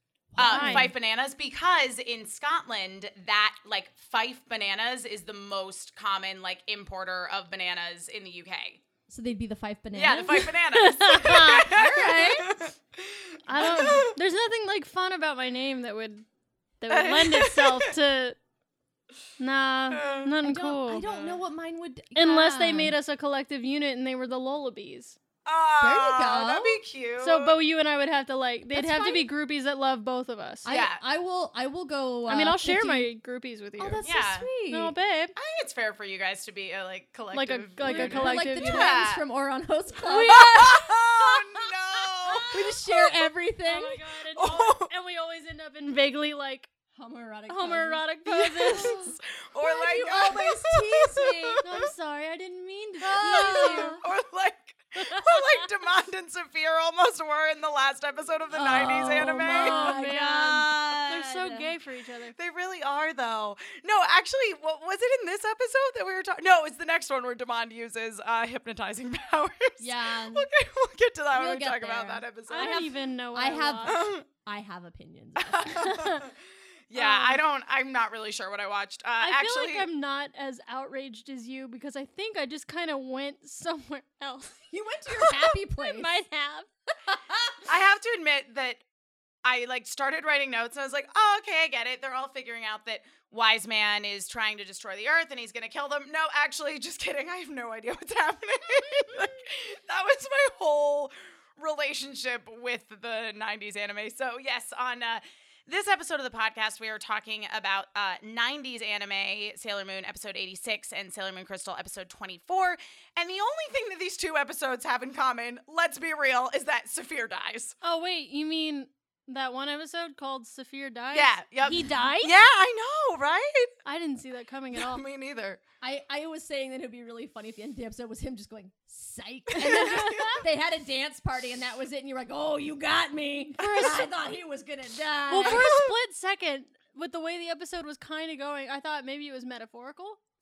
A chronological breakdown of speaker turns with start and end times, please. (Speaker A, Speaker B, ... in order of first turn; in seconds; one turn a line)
Speaker A: 0.3-0.9
Speaker B: 0.3-8.8
Speaker C: 0.4-0.9
Speaker A: 9.1-10.5
Speaker B: 9.9-14.1
Speaker C: 10.1-12.1
Speaker A: 11.7-12.6
Speaker C: 13.4-16.2
Speaker C: 16.8-18.4
Speaker B: 16.9-17.9
Speaker C: 19.4-21.0
Speaker B: 19.9-20.3
Speaker A: 20.4-22.9
Speaker B: 21.0-21.4
Speaker C: 22.1-25.2
Speaker B: 25.4-27.6
Speaker A: 25.8-26.8
Speaker C: 27.2-30.6
Speaker A: 28.7-29.3
Speaker A: 30.6-33.1
Speaker B: 30.7-31.0
Speaker C: 32.3-34.0
Speaker A: 33.8-34.9
Speaker B: 34.0-34.5
Speaker C: 34.7-35.3
Speaker B: 35.4-39.2
Speaker C: 37.3-38.9
Speaker A: 37.8-41.6
Speaker C: 40.0-40.7
Speaker B: 40.1-43.0
Speaker A: 42.3-44.0
Speaker C: 43.6-46.7
Speaker B: 44.3-44.9
Speaker A: 47.0-51.6
Speaker C: 47.5-49.1
Speaker B: 48.5-51.9
Speaker C: 51.6-54.0
Speaker A: 53.0-54.0
Speaker B: 53.1-60.2
Speaker C: 55.0-55.6
Speaker A: 58.5-61.7
Speaker C: 58.7-62.3
Speaker B: 62.4-72.8
Speaker A: 69.8-70.5
Speaker A: 71.3-76.0
Speaker C: 72.5-74.0
Speaker B: 73.8-74.2
Speaker B: 75.4-76.3
Speaker C: 75.8-76.2
Speaker B: 76.9-79.9
Speaker C: 76.9-77.4
Speaker C: 79.2-86.7
Speaker A: 84.7-86.2
Speaker A: 87.0-87.7
Speaker B: 87.7-88.8
Speaker B: 89.4-117.7
Speaker C: 117.8-122.3
Speaker B: 121.1-123.7
Speaker A: 121.7-121.9
Speaker C: 123.8-125.0
Speaker B: 124.7-125.6
Speaker A: 125.8-135.7
Speaker B: 129.5-130.4
Speaker C: 129.9-130.4
Speaker C: 133.6-134.1
Speaker C: 135.3-140.2
Speaker B: 135.4-135.9